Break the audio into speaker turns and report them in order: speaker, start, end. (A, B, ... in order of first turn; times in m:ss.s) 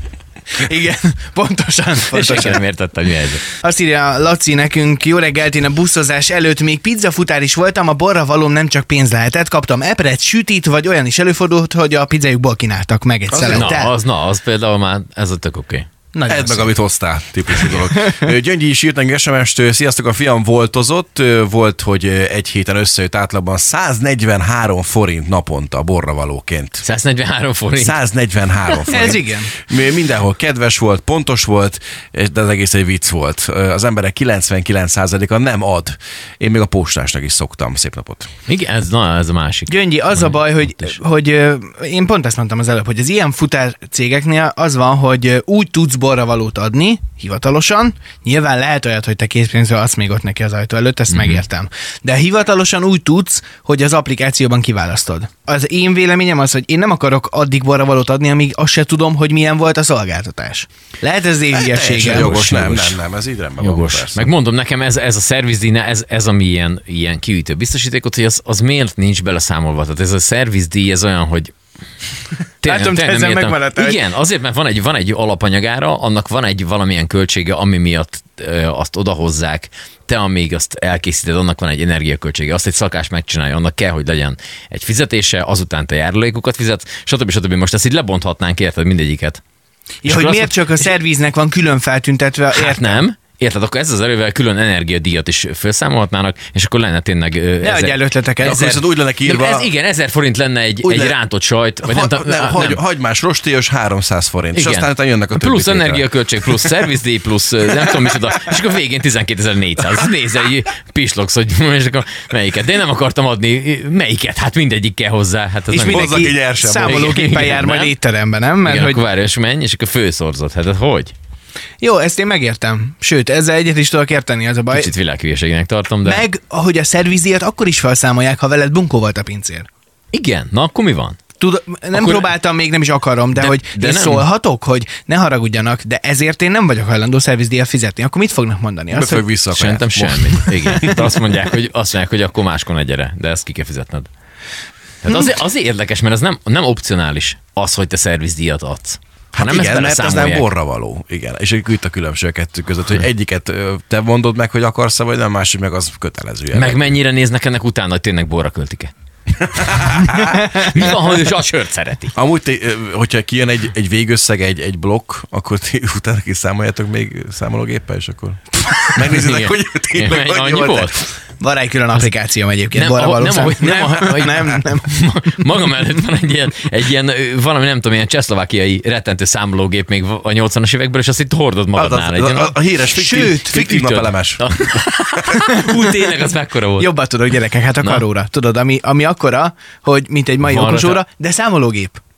0:00.6-0:02.6 A
0:02.1-0:03.4 B
0:03.4-0:13.9 A
0:13.3-0:13.7 C
0:13.5-0:15.9 B
0:16.1-0:16.8 A
0:16.3-0:26.8 C
0:17.6-0:18.3 A
0:26.8-0:28.0 B
0:27.8-0:38.3 C
0:28.9-0:29.5 A
0:38.5-0:41.0 B
0:39.7-1:02.9 A
0:51.1-0:51.4 B
1:01.6-1:04.3 C
1:02.0-1:02.9 B
1:03.6-1:11.5 B
1:12.6-1:29.4 B
1:12.6-1:14.0 A
1:30.0-1:33.0 A
1:30.1-1:30.9 B
1:32.5-1:38.6 B
1:37.6-1:38.8 A
1:38.4-1:39.7 C
1:39.2-1:42.8 B
1:40.8-1:41.2 C
1:41.8-1:46.7 C
1:44.6-1:56.3 B
1:55.7-1:59.0 A
1:55.8-1:57.6 C
1:56.8-1:57.9 B
1:58.6-2:01.1 B
2:01.8-2:04.9 A
2:04.7-2:06.2 B
2:06.0-2:09.7 A
2:10.1-2:11.2 B
2:11.4-2:19.2 A
2:11.9-2:12.3 B
2:13.4-2:14.2 B
2:18.9-2:21.2 C
2:19.6-2:24.1 B
2:25.0-2:30.5 B
2:29.3-2:37.0 C
2:36.5-2:38.9 B
2:39.4-2:40.8 C
2:39.6-2:42.2 B
2:42.2-2:51.1 C
2:49.0-2:51.1 B
2:51.4-2:54.9 A
2:52.7-3:02.6 B
3:01.8-3:04.8 C
3:02.9-3:03.6 A
3:03.5-3:06.9 B
3:05.3-3:06.1 A
3:06.8-3:12.0 A
3:10.4-3:11.0 B